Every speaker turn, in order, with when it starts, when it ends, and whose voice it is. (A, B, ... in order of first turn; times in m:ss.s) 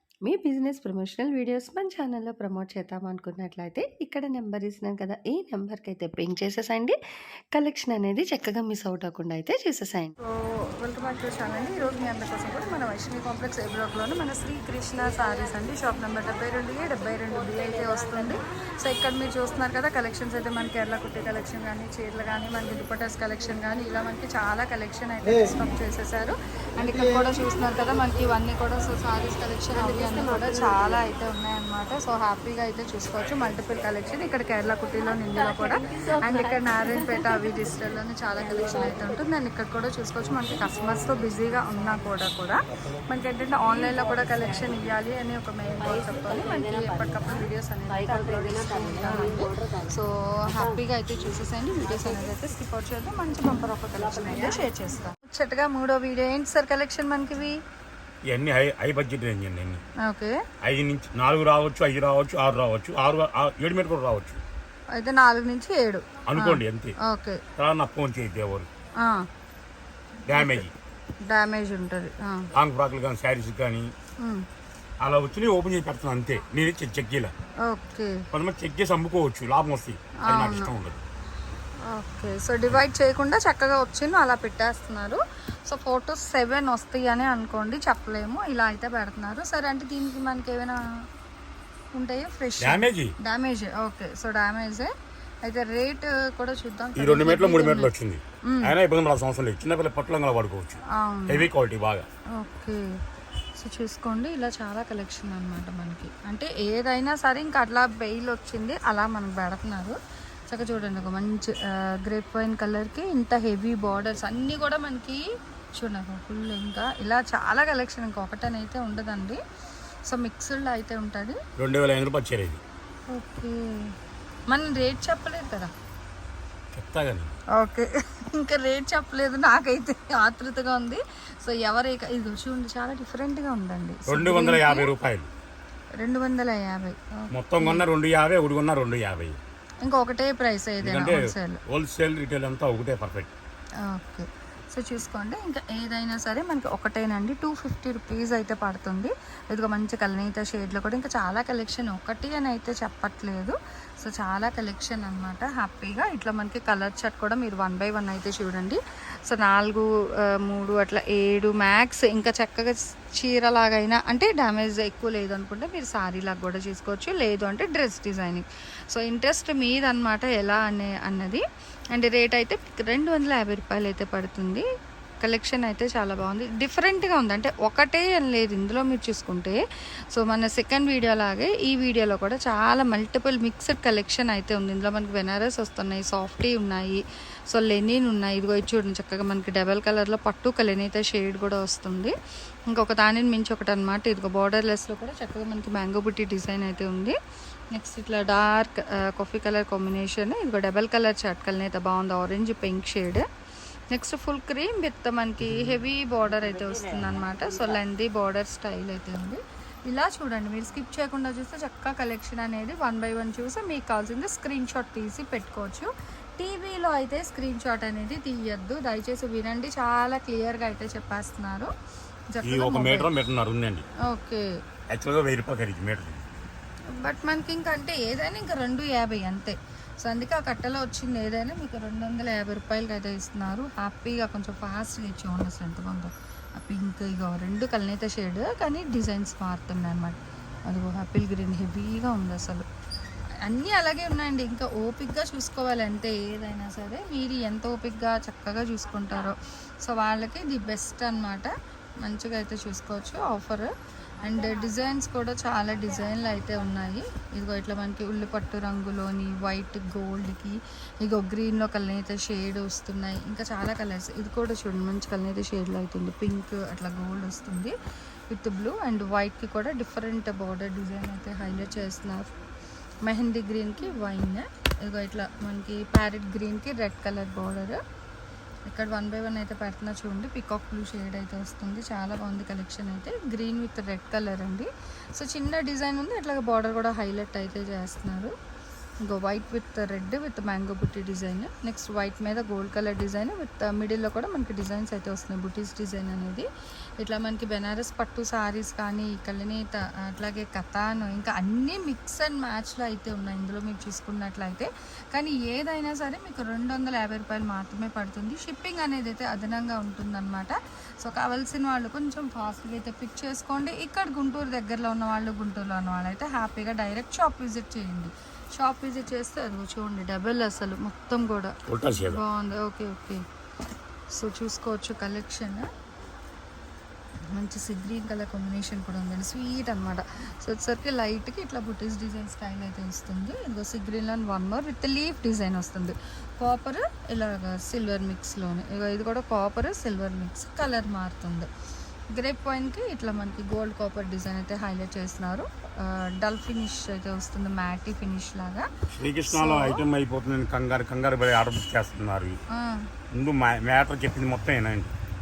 0:00.2-0:07.0 A
0:07.5-0:10.1 A
0:10.2-0:57.6 B
0:58.3-0:59.8 C
1:00.0-1:00.4 B
1:00.6-1:04.4 C
1:04.9-1:07.4 B
1:06.3-1:06.9 C
1:07.6-1:08.7 C
1:09.0-1:09.2 B
1:10.2-1:10.7 C
1:10.4-1:10.6 B
1:11.3-1:12.5 B
1:12.5-1:13.9 C
1:15.0-1:17.3 C
1:17.6-1:18.2 B
1:18.3-1:21.0 C
1:20.2-1:20.7 B
1:21.8-1:30.8 B
1:31.9-1:34.9 B
1:32.6-1:33.1 C
1:35.4-1:37.9 B
1:37.0-1:42.0 C
1:38.5-1:38.7 B
1:40.9-1:41.5 B
1:42.4-1:42.8 B
1:43.6-1:50.0 B
1:50.5-1:55.2 B
1:55.8-1:59.4 B
2:00.1-2:01.4 B
2:01.6-2:02.6 C
2:03.1-2:03.9 B
2:04.5-2:05.7 B
2:06.7-2:07.4 C
2:07.6-2:14.9 B
2:14.1-2:15.3 C
2:16.0-2:17.8 B
2:17.3-2:19.4 C
2:19.8-2:21.6 B
2:20.8-2:23.3 C
2:23.8-2:51.4 B
2:51.9-2:54.6 B
2:55.2-2:59.6 B
3:00.1-3:12.1 B
3:12.7-3:17.2 B
3:17.7-3:23.2 B
3:23.9-3:41.7 B
3:42.3-3:43.1 B
3:42.4-3:43.8 C
3:44.1-3:44.4 B
3:44.9-3:46.2 C
3:47.0-4:02.7 B
4:03.4-4:11.5 B
4:12.0-4:13.7 B
4:14.2-4:27.7 B
4:28.3-4:32.3 B
4:33.0-4:37.8 B
4:38.7-4:48.3 B
4:49.0-4:56.5 B
4:57.0-5:23.2 B
5:21.7-5:22.2 C
5:24.1-5:25.7 B
5:27.3-5:41.5 B
5:42.1-5:48.7 B
5:48.9-5:52.4 C
5:49.3-5:49.8 B
5:52.5-5:52.8 B
5:53.1-5:54.9 C